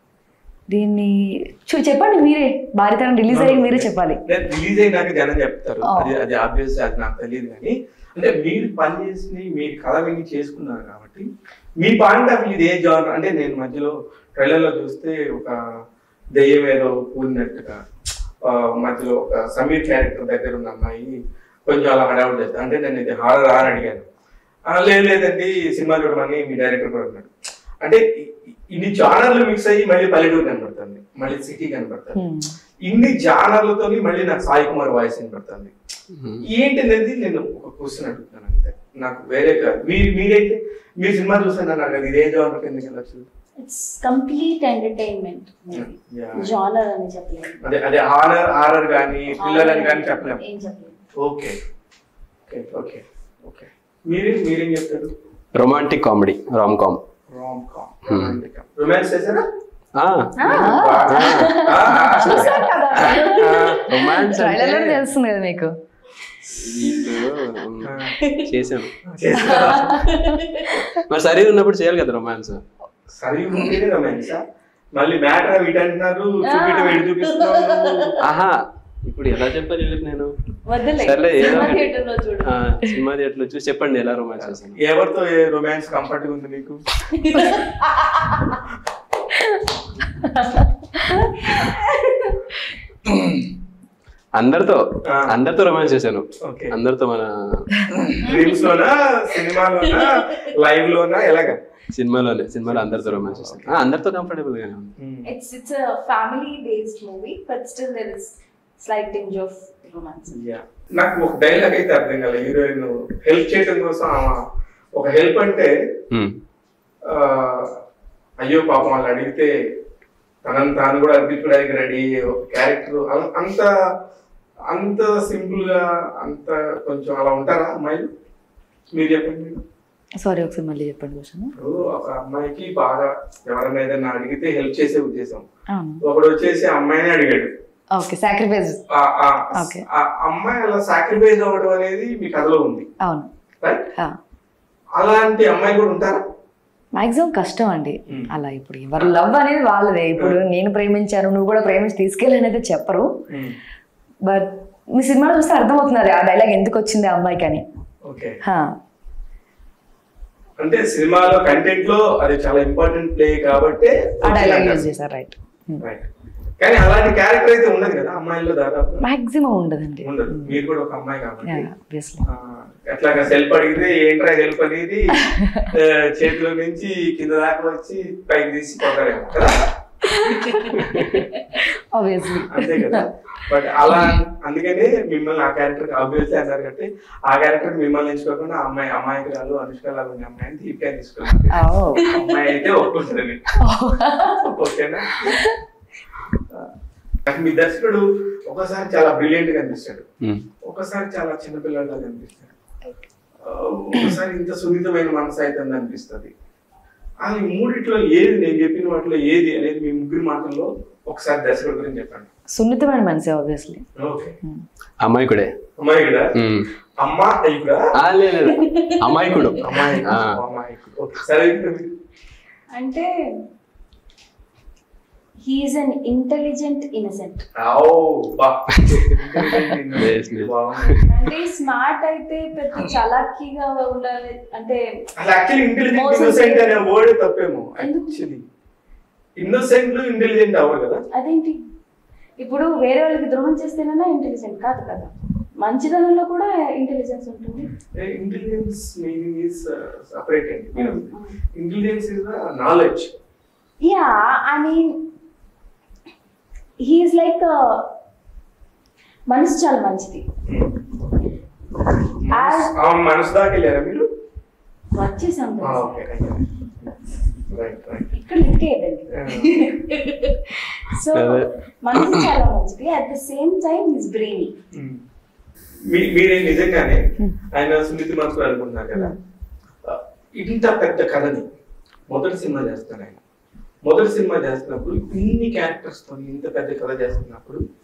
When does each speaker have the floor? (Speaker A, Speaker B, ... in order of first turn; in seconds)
Speaker A: 0.7-4.2, 5.8-6.1, 32.1-32.5, 60.5-62.6, 64.2-65.7, 69.3-70.4, 130.2-131.5, 135.7-136.0, 137.9-138.8, 139.6-139.8, 143.0-143.3, 146.9-153.1, 154.2-157.6, 158.4-158.8, 164.2-165.8, 169.0-170.6, 171.4-172.2, 175.2-175.7, 180.0-180.7, 181.6-183.1, 183.9-184.1, 191.5-192.1, 193.6-194.4, 195.3-195.6, 212.5-213.8
Speaker B: 3.3-11.3, 11.8-15.6, 16.3-17.8, 18.4-21.1, 21.7-24.0, 24.7-27.3, 27.8-32.2, 32.9-35.7, 36.5-43.3, 45.7-46.5, 47.6-50.4, 51.2-51.6, 52.5-55.1, 57.3-59.4, 60.4-63.9, 67.8-68.2, 69.0-70.0, 73.2-74.4, 75.0-78.2, 84.4-86.8, 96.4-96.7, 97.9-101.6, 102.6-103.8, 105.0-105.3, 110.3-114.4, 114.9-115.7, 117.1-117.8, 118.4-119.5, 120.4-123.7, 124.7-128.1, 128.9-129.6, 131.6-135.4, 136.0-137.5, 138.9-142.9, 145.0-146.2, 153.3-153.6, 158.0-158.4, 160.6-164.9, 165.8-166.1, 166.6-169.0, 170.0-171.7, 172.2-179.6, 180.7-181.3, 182.4-193.4, 194.4-195.4, 197.2-200.1, 200.6-202.5, 203.4-206.3, 207.2-212.3, 214.0-214.3, 215.8-216.3, 217.0-217.9, 219.6-221.9, 227.6-231.0, 235.2-238.4, 239.4-241.0, 247.9-253.1, 260.5-260.7, 262.2-264.1, 265.6-266.9, 267.5-268.1, 269.1-269.6, 274.7-275.0, 275.9-279.2, 279.8-281.5, 282.1-283.2, 283.8-287.6
Speaker C: 36.1-36.4, 55.5-57.0, 58.1-58.4, 60.0-60.4, 61.1-61.6, 62.9-65.0, 66.5-68.9, 70.9-72.6, 78.2-80.3, 81.0-81.9, 82.4-84.8, 94.3-97.8, 101.9-104.9, 116.1-116.4, 215.0-215.5, 216.3-216.7, 217.9-220.3, 228.7-229.2, 230.0-231.0, 271.1-272.3
Speaker D: 43.6-47.6, 49.4-51.0, 60.4-64.1, 66.9-67.3, 68.2-68.5, 69.8-70.7, 76.5-78.1, 80.7-82.6, 87.1-88.6, 90.4-92.4, 98.2-98.5, 105.2-110.4, 192.0-192.3, 218.4-219.7, 222.7-223.1, 225.4-227.5, 231.1-235.0, 235.9-236.8, 237.8-238.2, 241.1-241.6, 242.4-247.7, 250.8-251.4, 253.8-255.1, 256.8-257.9, 259.3-260.3, 262.3-262.7, 264.9-265.9, 268.1-274.5